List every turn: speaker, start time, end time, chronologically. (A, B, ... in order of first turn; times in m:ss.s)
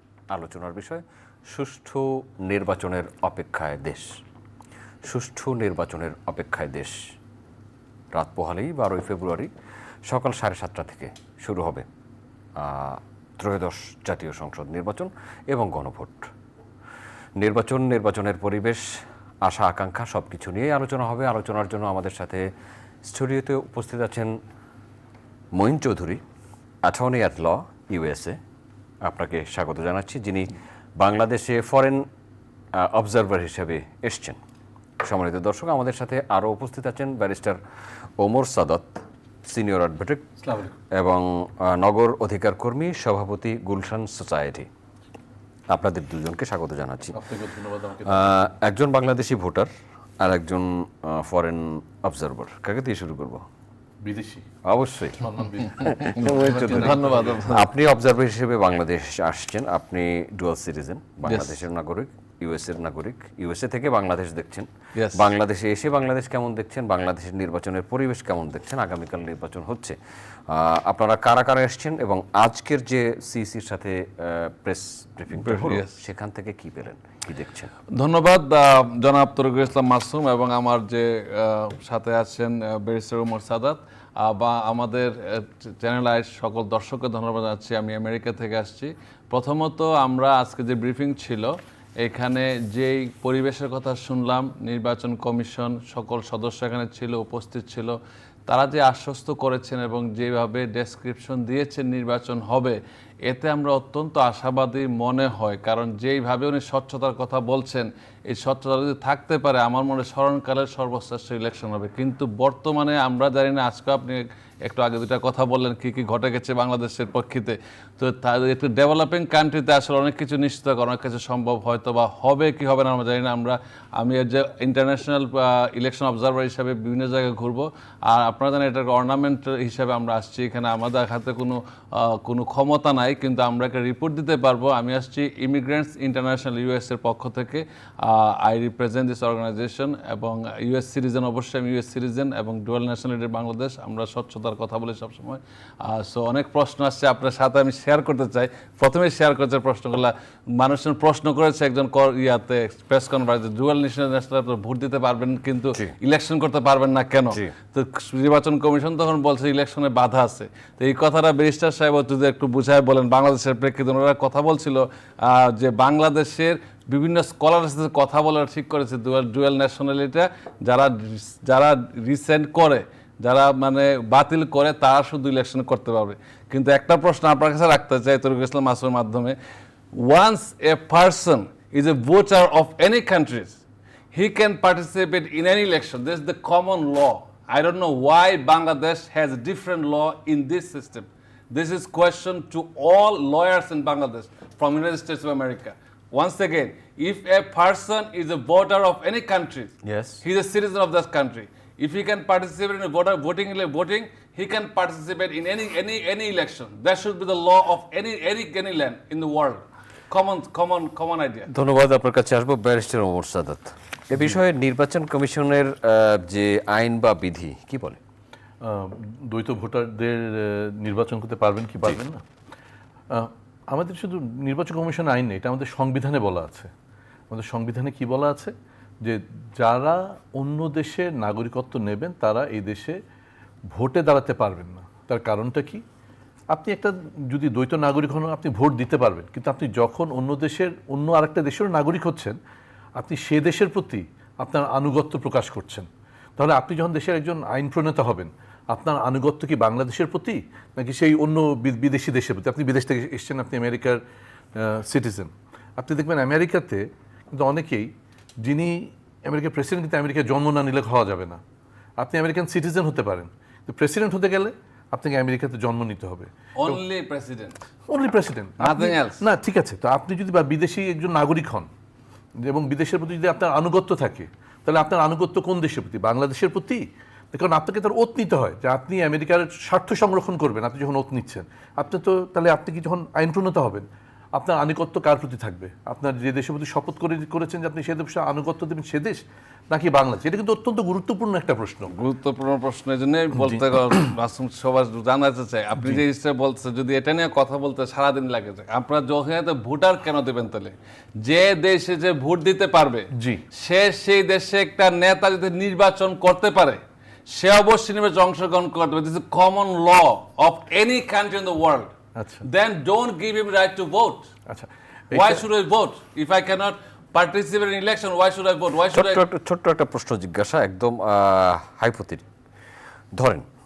0:00.3-0:04.2 A
0:05.0-0:07.0 A
0:08.1-0:09.5 A
0:10.0-0:11.8 A
0:12.6-0:16.3 A
0:17.4-0:18.8 A
0:19.4-0:22.5 A
0:23.0-0:24.4 A
0:25.5-0:26.2 A
0:26.8-0:28.4 A
0:29.0-0:32.0 A
0:32.7-0:34.4 A
0:35.0-0:37.6 A
0:38.2-0:40.3 A
0:40.4-0:40.7 B
0:40.9-0:44.7 A
0:45.7-0:47.2 A
0:47.1-0:48.3 B
0:48.0-0:49.7 A
0:50.2-0:53.4 A
0:54.0-0:54.5 B
0:54.6-1:10.0 A
0:55.2-0:57.4 B
0:55.8-0:57.7 C
1:01.2-1:01.5 C
1:04.9-1:05.3 C
1:10.5-1:17.7 A
1:15.3-1:16.0 C
1:17.9-1:38.0 C
1:38.5-2:59.4 C
2:59.9-3:03.6 C
3:04.1-3:31.5 C
3:19.8-3:20.2 A
3:31.5-3:38.0 A
3:38.6-3:42.2 B
3:43.1-3:46.7 B
3:47.3-3:53.0 B
3:53.7-3:55.8 B
3:56.5-4:02.4 B
4:03.0-4:14.0 B
4:14.5-4:21.4 B
4:22.0-4:26.8 B
4:26.6-4:27.6 C
4:27.9-4:31.7 B
4:28.6-4:29.2 C
4:32.4-4:51.9 B
4:51.9-5:14.3 C
4:53.3-4:53.6 B
5:03.1-5:03.4 B
5:12.2-5:12.4 B
5:14.5-5:15.4 B
5:15.1-5:19.2 C
5:18.9-5:22.2 A
5:23.1-5:23.4 A